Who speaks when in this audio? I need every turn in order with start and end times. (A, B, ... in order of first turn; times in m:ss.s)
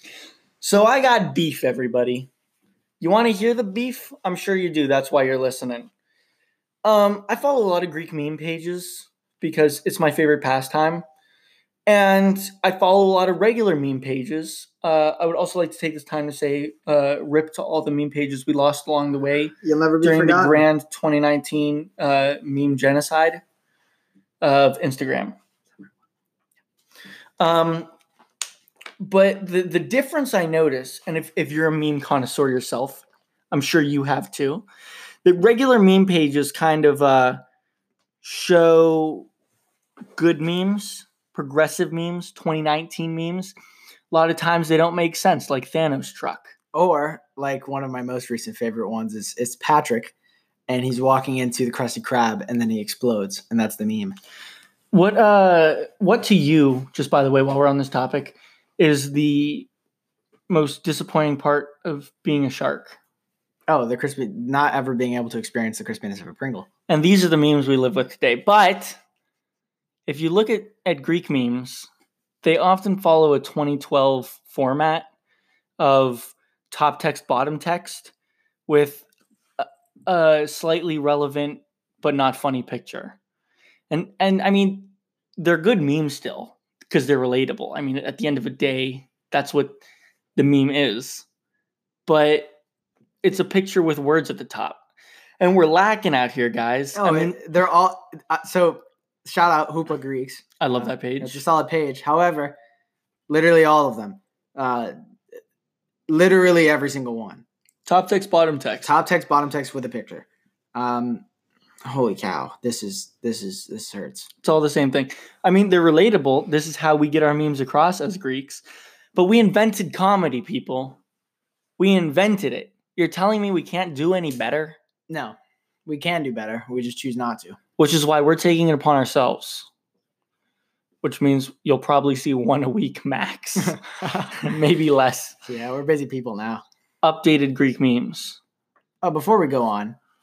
0:00.6-0:02.3 A
0:03.0-0:05.9 A
0:06.8-0:11.0 A
0:11.8-0:23.4 A
0:19.6-0:20.7 B
0:24.4-0:25.4 A
0:27.4-0:27.9 A
0:29.0-0:34.7 A
0:35.2-0:37.4 A
0:38.2-0:39.3 A
0:40.2-0:43.5 A
0:44.1-0:46.5 A
0:46.7-0:50.1 B
0:50.7-0:54.2 B
0:54.9-0:59.7 A
1:00.5-1:03.0 A
1:03.7-1:06.7 B
1:06.9-1:09.0 A
1:10.1-1:11.9 A
1:12.4-1:15.1 A
1:15.8-1:18.1 A
1:18.7-1:19.0 A
1:19.6-1:23.2 A
1:23.9-1:29.8 A
1:30.4-1:31.3 A
1:32.1-1:32.5 A
1:33.2-1:34.8 A
1:35.4-1:37.4 A
1:37.0-1:42.6 B
1:40.6-1:41.4 A
1:43.3-1:44.9 B
1:46.1-1:47.4 B
1:47.8-1:48.9 A
1:48.8-1:51.2 B
1:51.8-1:54.3 B
1:54.4-1:58.6 A
1:59.2-2:01.0 A
2:01.8-2:04.8 A
2:05.1-2:07.6 B
2:07.8-2:09.7 A
2:11.0-2:13.8 A
2:13.6-2:14.4 B
2:14.3-2:15.4 A
2:15.5-2:16.6 B
2:17.0-2:18.4 A
2:19.0-2:20.0 B